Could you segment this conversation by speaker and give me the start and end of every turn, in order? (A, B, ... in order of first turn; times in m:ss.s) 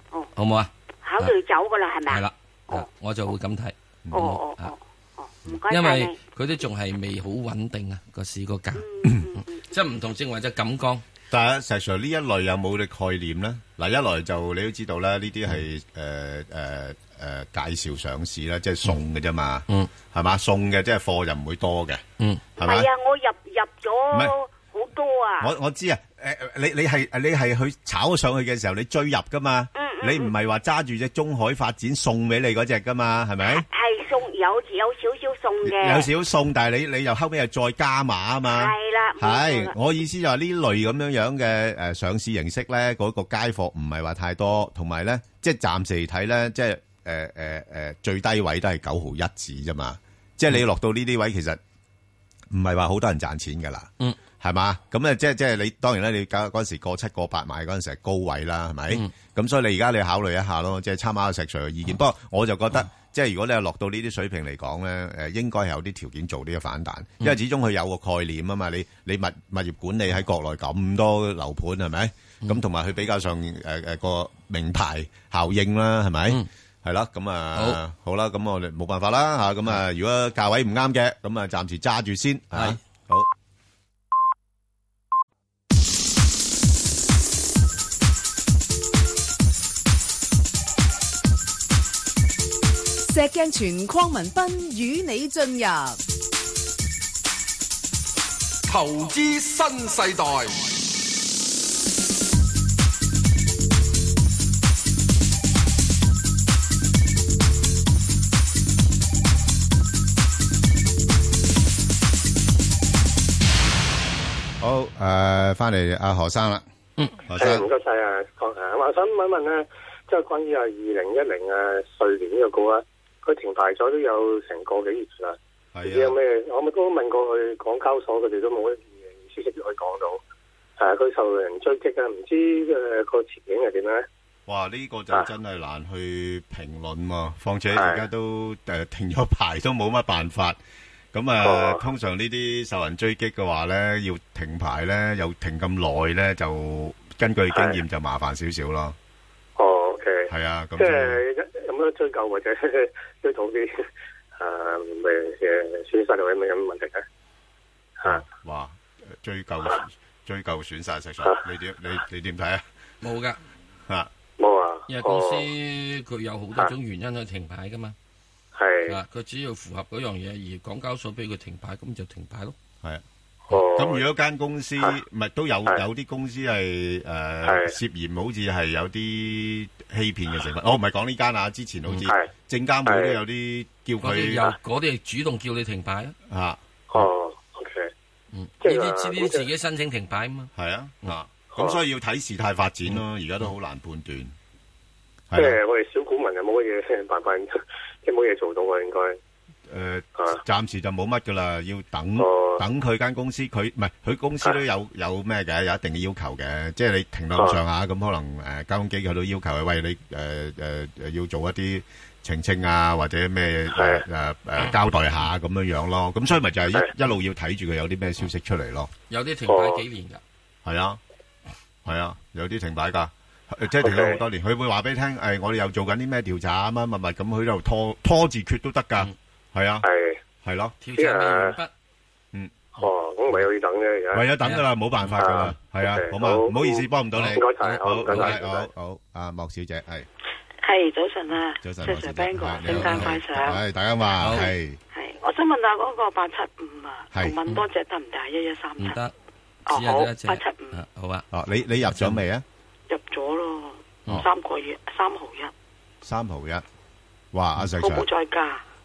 0:00.4-0:01.4 A
0:01.0-0:02.9 B
0:02.1-0:04.8 A
0:04.1-0:06.2 B
0:05.7-0:11.0 A
0:08.8-0:09.6 B
0:11.3-0:22.0 C
0:22.2-0:22.4 A
0:22.6-0:25.5 B
0:22.6-0:22.9 C
0:25.4-0:33.6 C
0:29.8-0:30.3 B
0:33.5-0:36.1 B
0:35.6-0:51.6 C
0:38.5-0:39.7 B
0:52.5-1:23.3 C
1:33.1-1:36.0 D
1:38.7-1:40.6 E
1:54.6-1:56.7 C
1:57.3-1:57.7 C
1:57.4-2:10.2 F
2:05.8-2:06.2 C
2:10.8-2:14.1 F
2:14.5-2:20.6 C
2:17.7-2:18.0 F
2:21.1-2:29.0 C
2:21.4-2:21.8 F
2:27.5-2:27.8 F
2:29.6-2:33.8 F
2:30.3-2:31.2 C
2:34.4-2:37.0 F
2:38.0-2:42.6 C
2:43.0-2:43.4 A
2:44.4-2:45.5 F
2:44.9-2:48.0 A
2:48.6-2:49.0 F
2:48.9-2:52.6 A
2:52.8-3:04.5 C
2:53.5-2:54.0 F
2:57.4-2:57.7 F
3:02.0-3:02.3 F
3:02.9-3:03.2 F
3:04.0-3:06.2 A
3:06.3-3:07.1 C
3:06.9-3:07.9 F
3:08.3-3:10.5 A
3:08.6-3:09.4 F
3:10.6-3:14.3 C
3:11.5-3:11.8 F
3:15.3-3:15.6 C
3:15.4-3:17.5 F
3:18.0-3:19.2 F
3:19.7-3:38.9 C
3:22.2-3:22.6 F
3:33.7-3:34.0 F
3:39.1-3:40.2 A
3:39.5-3:39.8 F
3:40.6-3:41.0 C
3:41.8-3:49.9 C
3:43.8-3:44.2 F
3:49.8-3:50.2 F
3:50.4-3:50.8 C
3:50.8-3:51.7 A
3:51.0-3:51.6 F
3:52.8-3:54.3 F
3:54.1-4:00.1 C
3:55.2-3:58.7 F
3:57.1-3:58.4 A
4:00.6-4:03.6 G
4:01.6-4:04.8 C
4:02.6-4:03.2 A
4:04.2-4:04.5 A
4:04.9-4:09.0 G
4:08.8-4:09.1 A
4:09.7-4:10.8 G
4:09.7-4:11.3 A
4:11.3-4:12.4 C
4:11.9-4:12.2 A
4:12.9-4:15.5 G
4:16.0-4:16.6 C
4:17.3-4:18.1 C
4:17.8-4:18.6 G